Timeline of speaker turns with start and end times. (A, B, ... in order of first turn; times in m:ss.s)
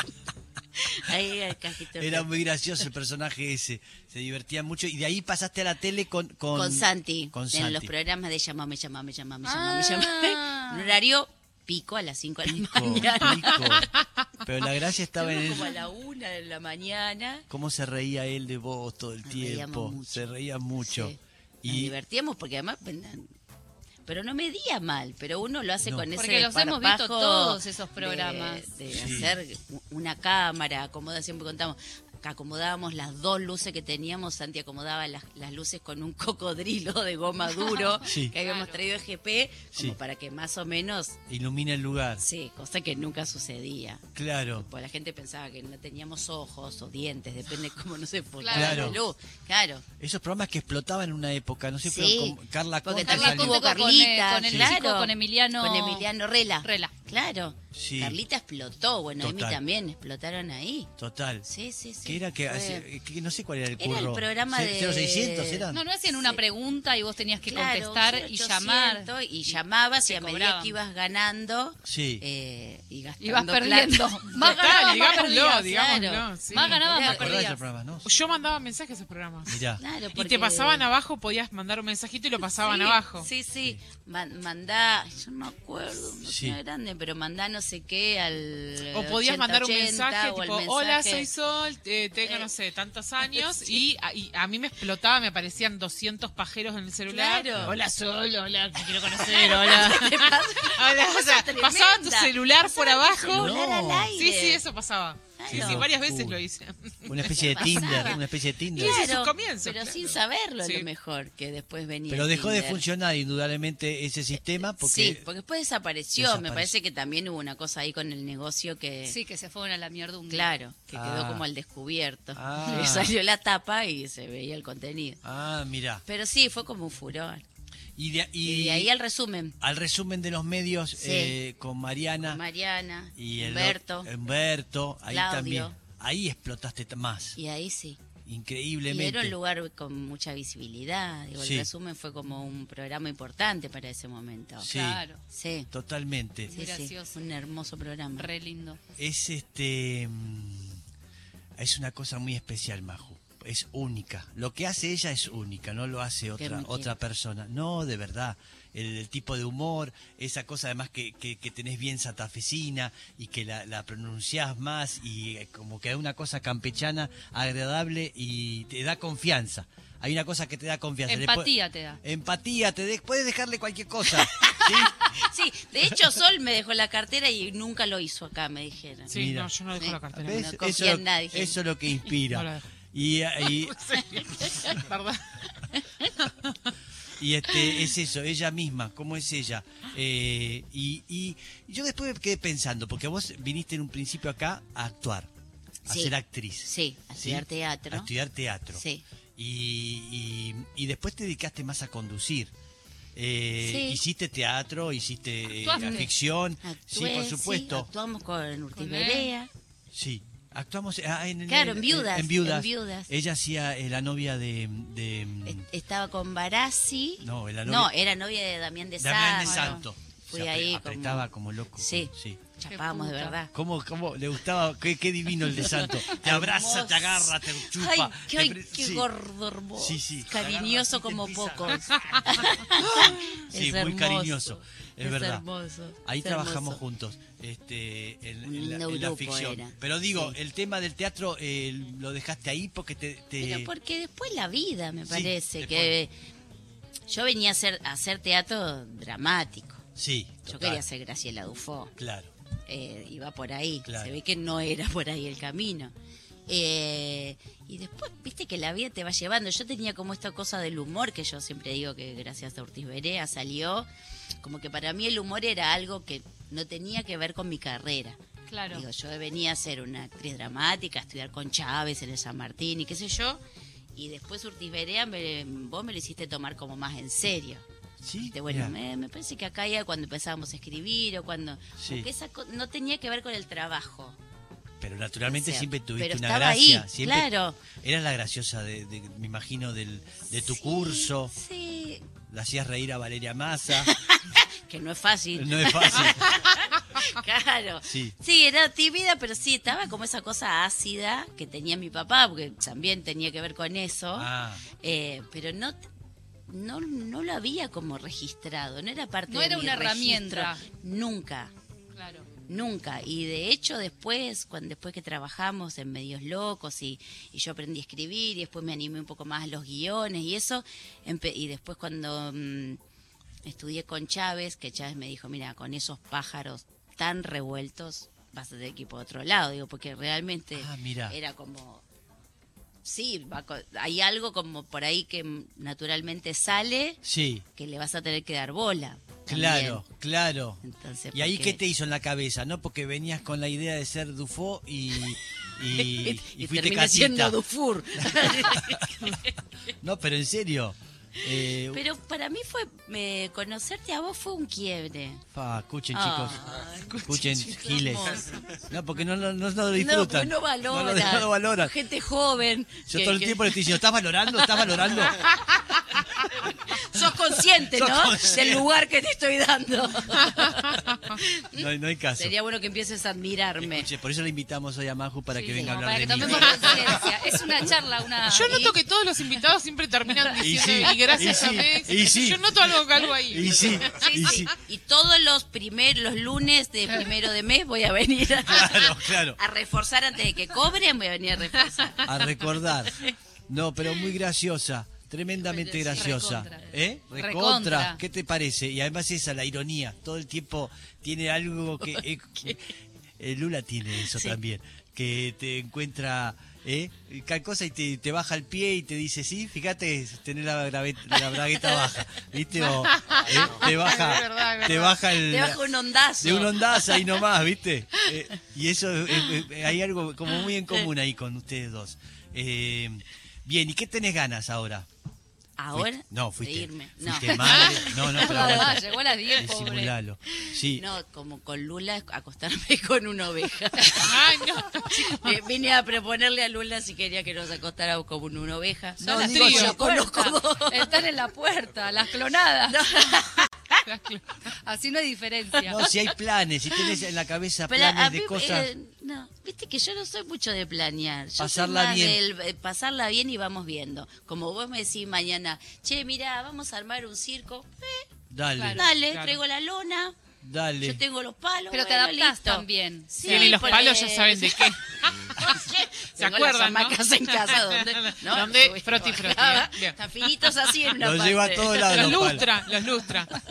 0:00.8-0:02.3 A
0:02.0-0:07.9 B
0:06.5-0:13.9 A
0:09.4-0:11.0 C
0:12.4-0:15.7 B
0:15.2-0:17.5 A
0:17.5-0:21.9 B
0:19.2-0:20.3 A
0:20.8-0:23.3 A
0:24.1-0:41.2 A
0:26.2-0:28.7 C
0:28.9-0:29.3 B
0:37.7-0:38.8 C
0:38.0-0:38.4 B
0:41.3-0:42.2 B
0:42.2-0:49.8 A
0:44.2-0:44.7 B
0:48.4-0:49.0 C
0:48.5-0:49.0 B
0:50.0-0:53.6 B
0:51.8-1:00.9 A
0:53.0-0:56.1 C
0:54.4-0:54.7 B
0:56.6-0:56.9 C
0:57.7-0:58.2 B
0:59.2-0:59.6 B
1:01.0-1:01.5 B
1:01.5-1:02.9 A
1:02.0-1:05.8 B
1:03.8-1:06.4 A
1:05.7-1:10.8 C
1:07.4-1:17.4 A
1:11.8-1:12.2 B
1:13.2-1:15.3 C
1:14.4-1:16.8 D
1:16.5-1:17.6 C
1:16.9-1:18.1 B
1:18.0-1:19.6 D
1:19.5-1:19.8 B
1:19.8-1:20.9 A
1:20.1-1:23.3 D
1:22.6-1:31.3 A
1:26.2-1:26.6 B
1:28.9-1:48.2 D
1:33.4-1:33.8 A
1:37.1-1:37.8 A
1:39.0-1:44.6 A
1:43.3-1:44.1 B
1:45.4-1:45.9 A
1:45.5-1:46.4 B
1:47.0-1:49.0 B
1:47.3-1:48.2 A
1:48.7-1:50.9 D
1:48.8-1:52.8 A
1:52.1-1:55.2 B
1:54.8-1:59.2 A
1:56.2-1:56.7 B
1:59.1-2:00.5 C
2:00.3-2:05.2 A
2:00.9-2:01.4 B
2:02.4-2:03.1 B
2:05.2-2:06.0 B
2:06.0-2:07.4 A
2:08.0-2:08.9 B
2:08.4-2:09.6 A
2:09.6-2:12.4 B
2:11.0-2:11.4 A
2:12.2-2:14.1 A
2:13.2-2:17.4 B
2:15.1-2:15.7 A
2:17.4-2:18.0 A
2:18.2-2:19.4 B
2:18.9-2:24.7 A
2:21.4-2:21.7 B
2:24.6-2:25.0 B
2:24.7-2:25.2 C
2:25.3-2:25.7 A
2:25.7-2:26.5 B
2:26.5-2:27.2 C
2:26.5-2:28.3 A
2:28.2-2:28.8 C
2:29.0-2:30.8 B
2:31.6-2:55.1 B
2:36.4-2:36.9 A
2:51.1-2:52.0 C
2:54.4-2:59.1 A
2:59.1-3:00.5 D
2:59.1-2:59.5 B
2:59.8-3:01.6 A
3:00.1-3:03.8 B
3:02.3-3:02.7 D
3:03.5-3:05.4 D
3:04.5-3:04.8 A
3:07.2-3:15.3 B
3:15.9-3:18.8 B
3:15.9-3:18.1 A
3:18.7-3:19.0 A
3:19.4-3:22.5 B
3:23.2-3:27.9 B
3:23.6-3:24.0 A
3:25.6-3:26.1 C
3:25.8-3:26.1 A
3:26.6-3:29.5 A
3:28.8-3:29.3 C
3:29.9-3:35.7 B
3:31.5-3:33.1 A
3:35.5-3:41.3 A
3:37.2-3:37.9 B
3:39.0-3:42.4 B
3:39.4-3:39.8 C
3:41.8-3:43.5 A
3:42.7-3:43.4 C
3:43.5-3:49.1 B
3:45.5-3:56.8 A
3:49.8-3:55.4 B
3:56.0-4:03.7 B
3:58.5-4:00.4 A
4:03.4-4:06.1 A
4:05.1-4:06.0 B
4:07.1-4:09.8 A
4:10.0-4:10.8 B
4:10.5-4:12.0 A
4:12.0-4:12.3 B
4:12.7-4:15.9 A
4:13.8-4:14.1 B
4:16.5-4:23.9 A
4:24.4-4:28.2 A
4:28.5-4:28.9 C
4:28.7-4:33.4 A
4:34.0-4:37.6 A
4:38.0-4:38.8 B
4:38.3-4:44.2 A
4:41.8-4:42.1 B
4:44.8-4:51.3 B
4:45.3-4:47.6 A
4:50.3-4:52.1 A
4:52.3-4:53.9 B
4:53.8-5:05.8 A
4:55.4-4:56.3 B
4:57.8-4:58.2 B
5:04.2-5:04.6 B
5:06.5-5:11.5 A
5:09.3-5:10.6 C
5:11.9-5:12.3 C
5:12.4-5:22.8 A
5:23.4-5:31.8 A
5:30.6-5:31.2 B
5:32.8-5:37.0 A
5:37.0-5:37.5 B
5:37.6-5:39.8 A
5:39.3-5:40.6 B
5:40.6-5:41.6 A
5:41.1-5:47.4 B
5:45.7-5:49.4 A
5:48.0-5:49.2 B
5:49.8-5:51.8 B
5:51.2-5:55.2 A
5:55.3-6:01.7 B
5:55.9-5:58.5 A
5:59.7-6:03.8 A
6:02.9-6:05.3 B
6:04.6-6:13.9 A
6:07.7-6:08.7 B
6:11.6-6:12.3 B
6:13.6-6:16.9 B
6:15.3-6:18.7 C
6:15.6-6:16.9 A
6:16.5-6:16.8 D
6:18.3-6:23.8 D
6:20.4-6:22.8 B
6:23.3-6:24.5 B
6:23.8-6:32.1 A
6:28.5-6:29.4 B
6:32.0-6:55.6 B
6:32.9-6:33.2 A
6:35.5-6:38.0 C
6:52.7-6:55.0 D
6:55.2-6:57.1 A
6:56.2-7:04.9 B
6:59.1-6:59.5 A
7:05.6-7:08.8 A
7:05.7-7:10.8 B
7:07.7-7:09.9 C
7:10.8-7:21.0 A
7:14.0-7:15.4 D
7:19.0-7:19.8 B
7:19.1-7:22.9 C
7:19.2-7:19.8 D
7:22.7-7:23.9 A
7:23.9-7:24.5 D
7:24.6-7:25.8 C
7:25.6-7:28.7 B
7:27.7-7:38.1 A
7:31.4-7:32.2 B
7:38.3-7:38.9 B
7:38.6-7:38.8 C
7:38.8-7:40.2 A
7:39.0-7:39.4 D
7:40.4-7:41.0 B
7:40.8-7:44.8 A
7:41.7-7:43.8 C
7:43.2-7:50.0 D
7:45.3-7:52.3 A
7:51.0-7:52.5 B
7:51.9-7:53.4 D